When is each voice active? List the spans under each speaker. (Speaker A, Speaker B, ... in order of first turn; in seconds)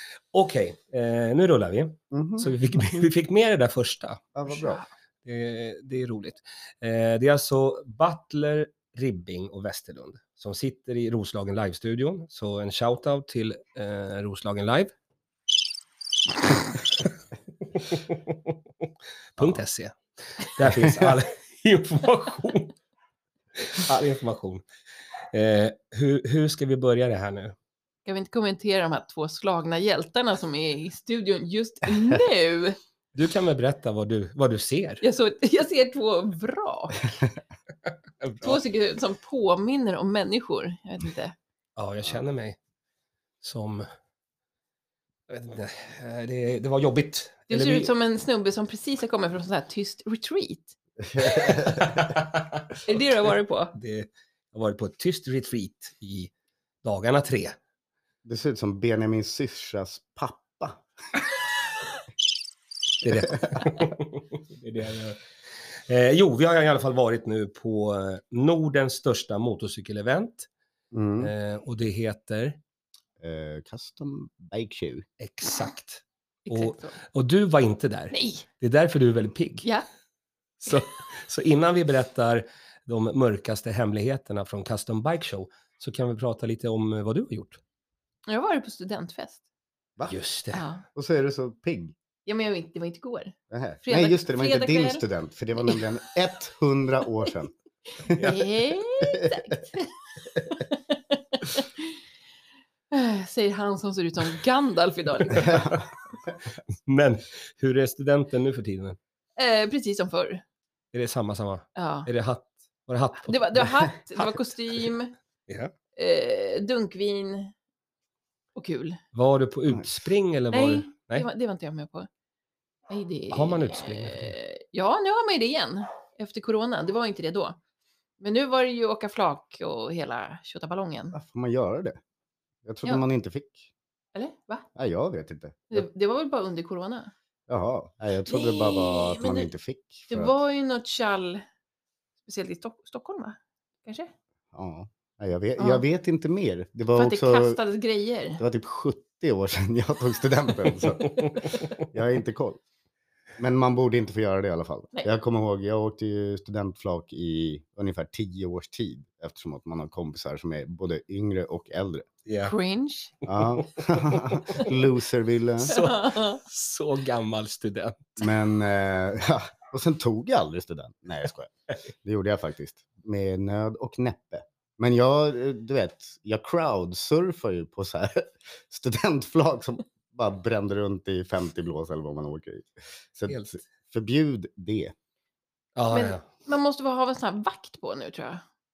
Speaker A: 0.3-4.3, 5.2-14.9, 17.7-22.8, 23.6-24.6, 25.3-27.6, 33.1-35.0, 38.2-38.6, 41.8-42.6, 43.4-43.9, 45.3-47.9, 51.4-52.9, 53.7-56.3, 56.8-57.6, 63.0-65.2, 65.8-70.5, 71.2-72.6, 75.2-79.7, 80.6-87.6, 90.1-90.7, 105.3-105.8, 106.8-109.0, 110.9-113.8, 115.5-115.7, 119.1-121.3, 123.3-124.3, 162.2-162.5, 163.5-164.7, 165.6-168.2, 183.3-183.6, 185.8-186.2
Speaker B: 2.1-2.5, 4.3-4.8, 20.6-21.1, 51.0-52.1, 58.2-60.8, 63.2-63.6, 70.9-71.3, 73.2-75.0, 90.9-92.0, 93.5-99.6, 105.4-105.9, 131.1-132.0, 132.6-133.7, 134.7-135.7, 137.5-140.3, 144.5-147.6, 148.4-151.2, 151.9-152.6, 153.4-162.1, 163.2-165.8, 168.2-171.5, 172.0-184.9
Speaker C: 4.5-4.9, 28.1-32.8, 35.0-37.1, 38.4-41.3, 47.5-50.7, 52.8-53.7, 76.5-77.0, 78.1-78.5, 88.3-89.4, 90.5-90.8, 92.2-95.0, 98.1-100.0, 100.5-102.0, 102.9-105.7, 109.3-110.4, 111.8-112.1, 113.2-115.1, 116.0-117.5, 118.5-119.0, 120.5-122.1, 122.9-127.6, 128.2-131.2, 134.1-134.7, 135.7-137.1, 138.3-139.5, 140.1-141.4, 142.2-144.1, 145.6-145.8, 146.9-148.4, 162.4-163.1, 165.6-166.4, 185.9-188.4